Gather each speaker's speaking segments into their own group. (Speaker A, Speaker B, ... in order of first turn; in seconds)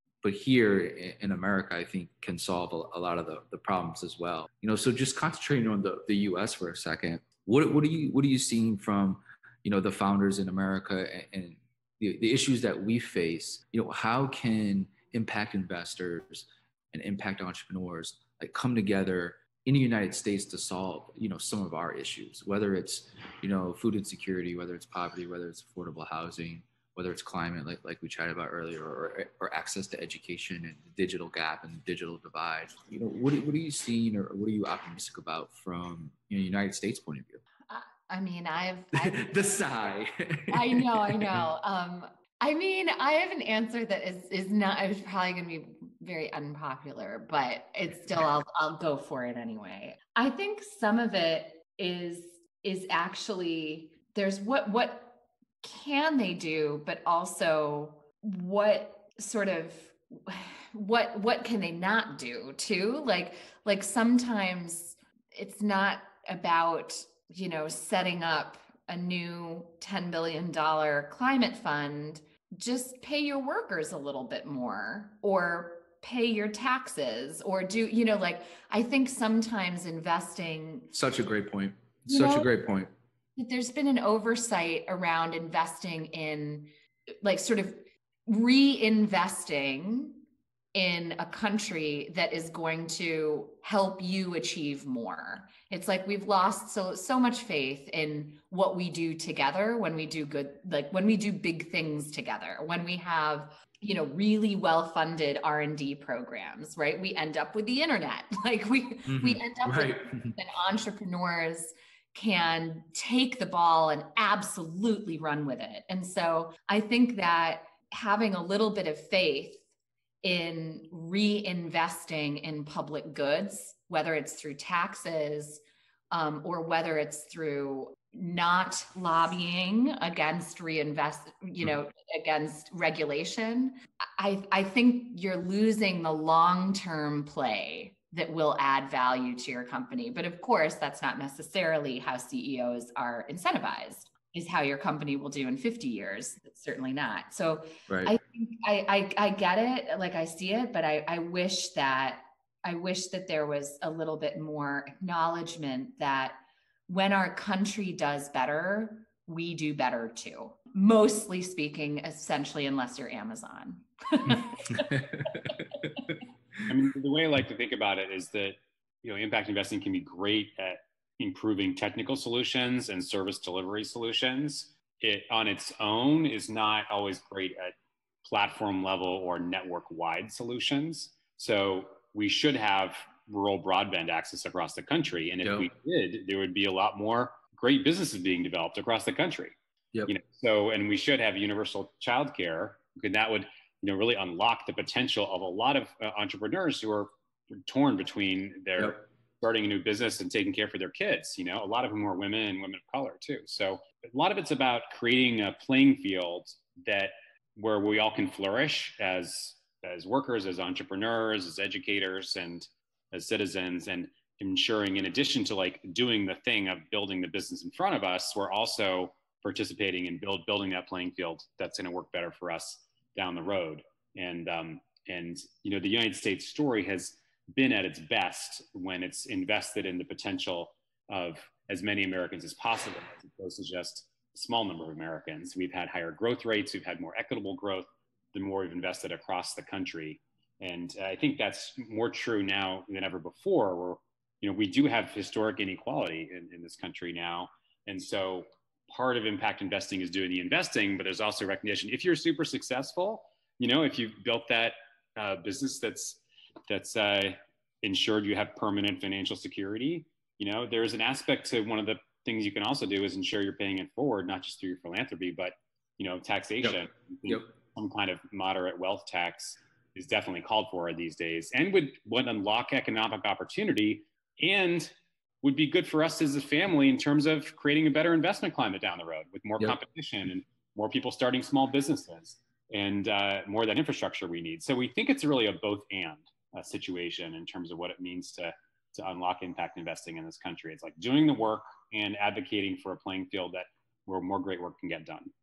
Speaker A: 0.2-37.4, 38.9-41.4, 80.9-82.9, 109.1-110.3, 147.9-148.2, 164.3-165.9, 185.4-185.7, 266.6-267.5
Speaker B: 37.7-39.6, 40.5-80.9, 82.1-82.5, 83.3-86.7, 87.2-90.2, 90.7-119.6, 120.2-156.4, 156.9-165.7
Speaker C: 166.7-189.5, 190.1-295.3